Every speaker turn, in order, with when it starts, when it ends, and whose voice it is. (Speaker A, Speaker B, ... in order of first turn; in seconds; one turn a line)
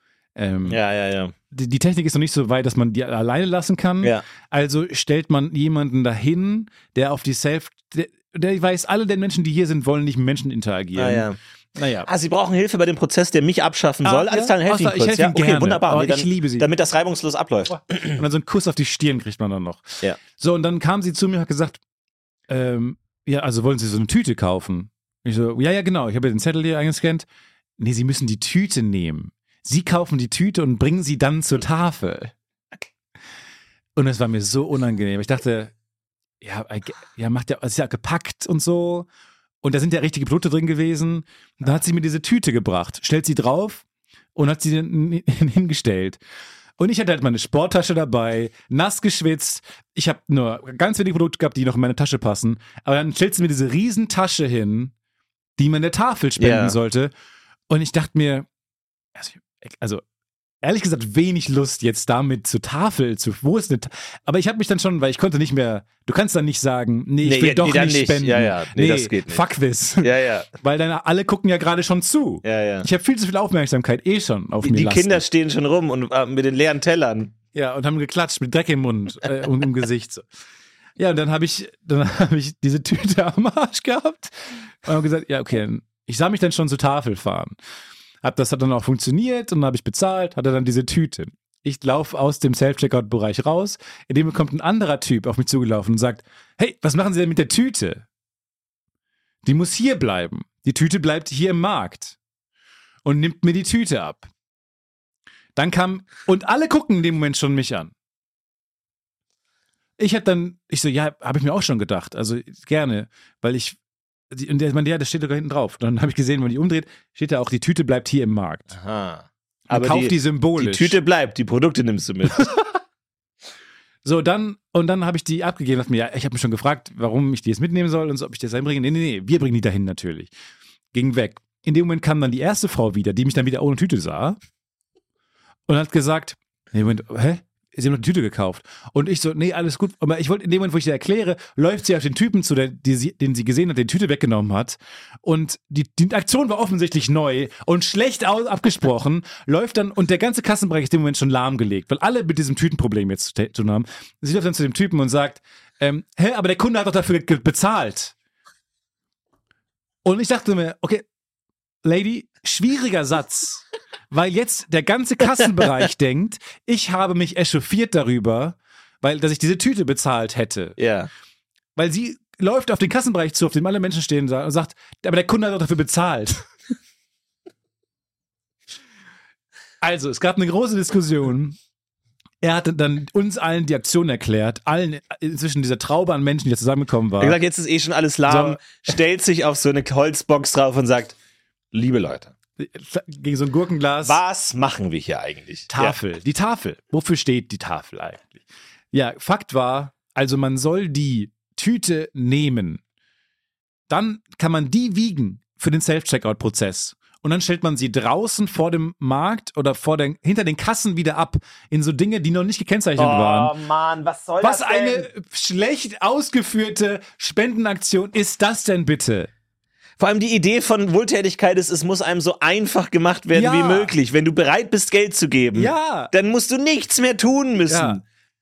Speaker A: 0.3-0.8
Speaker B: 0.7-1.3
Speaker A: 1.5-12.1
Speaker B: 10.9-11.4
Speaker B: 12.0-18.2
Speaker A: 14.0-16.7
Speaker A: 17.9-21.8
Speaker A: 22.5-27.2
Speaker A: 27.8-32.3
Speaker A: 34.0-35.7
Speaker A: 36.4-39.1
Speaker A: 39.6-43.8
Speaker A: 44.3-46.2
Speaker A: 46.8-54.9
Speaker A: 55.6-57.1
Speaker B: 56.4-56.8
Speaker A: 57.7-58.5
Speaker A: 59.1-60.0
Speaker A: 60.6-75.2
Speaker B: 67.2-69.4
Speaker B: 70.0-70.5
Speaker B: 72.4-72.9
Speaker B: 74.6-77.3
Speaker A: 77.5-80.2
Speaker A: 81.0-87.5
Speaker A: 88.2-98.0
Speaker A: 99.4-102.2
Speaker A: 103.0-104.3
Speaker A: 105.5-107.9
Speaker A: 110.0-113.8
Speaker A: 114.3-118.7
Speaker B: 118.7-122.5
Speaker A: 119.7-121.0
Speaker A: 122.3-122.6
Speaker A: 124.0-130.3
Speaker A: 130.9-134.4
Speaker A: 135.7-158.1
Speaker A: 160.0-161.0
Speaker A: 161.8-170.8
Speaker B: 170.8-171.1
Speaker A: 171.8-176.5
Speaker A: 179.8-181.6
Speaker A: 182.4-187.4
Speaker B: 187.2-191.2
Speaker A: 188.3-188.8
Speaker B: 191.7-192.3
Speaker A: 192.6-194.2
Speaker B: 194.0-195.9
Speaker A: 195.7-202.8
Speaker A: 203.9-213.5
Speaker B: 213.0-215.1
Speaker A: 214.4-219.3
Speaker B: 220.0-228.0
Speaker A: 223.3-223.9
Speaker A: 225.5-226.1
Speaker A: 227.7-228.0